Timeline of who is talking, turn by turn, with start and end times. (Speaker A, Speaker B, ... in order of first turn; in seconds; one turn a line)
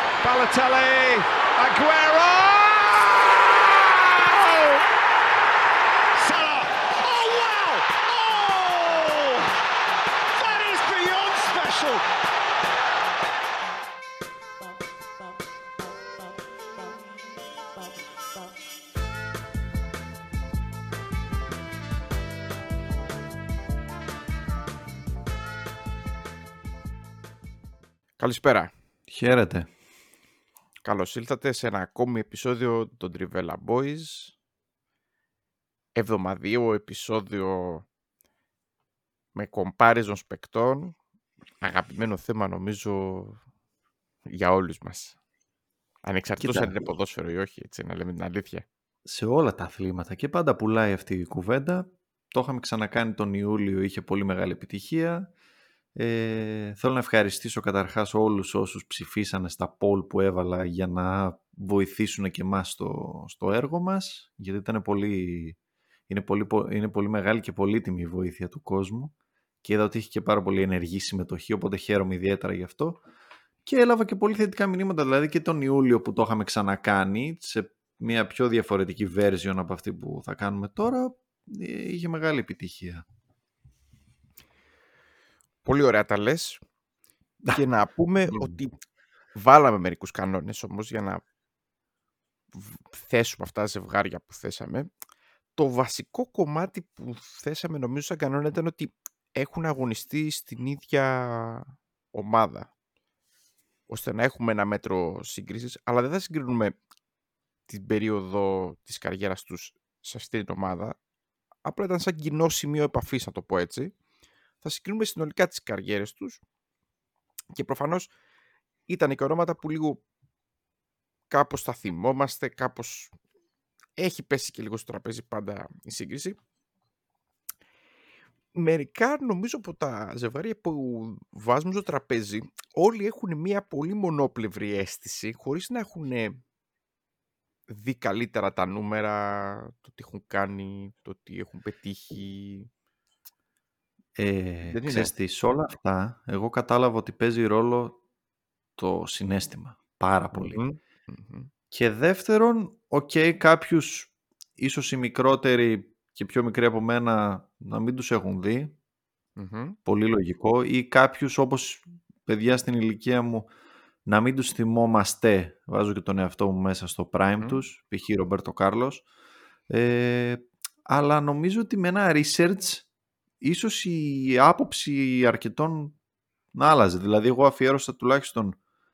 Speaker A: 0.2-4.8
Speaker A: 6.2-9.5
Speaker A: 10.3-12.1
Speaker B: 28.2-28.7
Speaker C: 29.1-29.7
Speaker B: 30.8-34.3
Speaker B: 36.0-37.9
Speaker B: 39.3-41.0
Speaker B: 41.6-43.4
Speaker B: 44.3-45.2
Speaker B: 46.0-48.7
Speaker C: 46.4-46.9
Speaker C: 49.0-55.3
Speaker C: 56.0-65.6
Speaker C: 66.1-73.0
Speaker C: 73.7-83.0
Speaker B: 85.6-86.6
Speaker B: 87.5-88.8
Speaker C: 88.3-88.6
Speaker B: 89.3-91.2
Speaker B: 92.5-94.9
Speaker B: 95.5-102.7
Speaker B: 103.9-106.8
Speaker B: 107.7-111.0
Speaker B: 111.6-113.9
Speaker B: 114.6-116.4
Speaker B: 117.5-118.1
Speaker B: 118.9-120.0
Speaker B: 121.3-123.1
Speaker B: 124.0-126.4
Speaker B: 128.5-136.4
Speaker B: 137.7-142.7
Speaker C: 144.2-148.0
Speaker B: 144.7-145.1
Speaker C: 148.8-150.6
Speaker B: 150.3-151.5
Speaker C: 151.7-158.8
Speaker B: 159.4-159.8
Speaker C: 159.9-163.5
Speaker C: 164.1-169.1
Speaker C: 169.7-172.9
Speaker C: 173.4-175.9
Speaker C: 176.5-178.6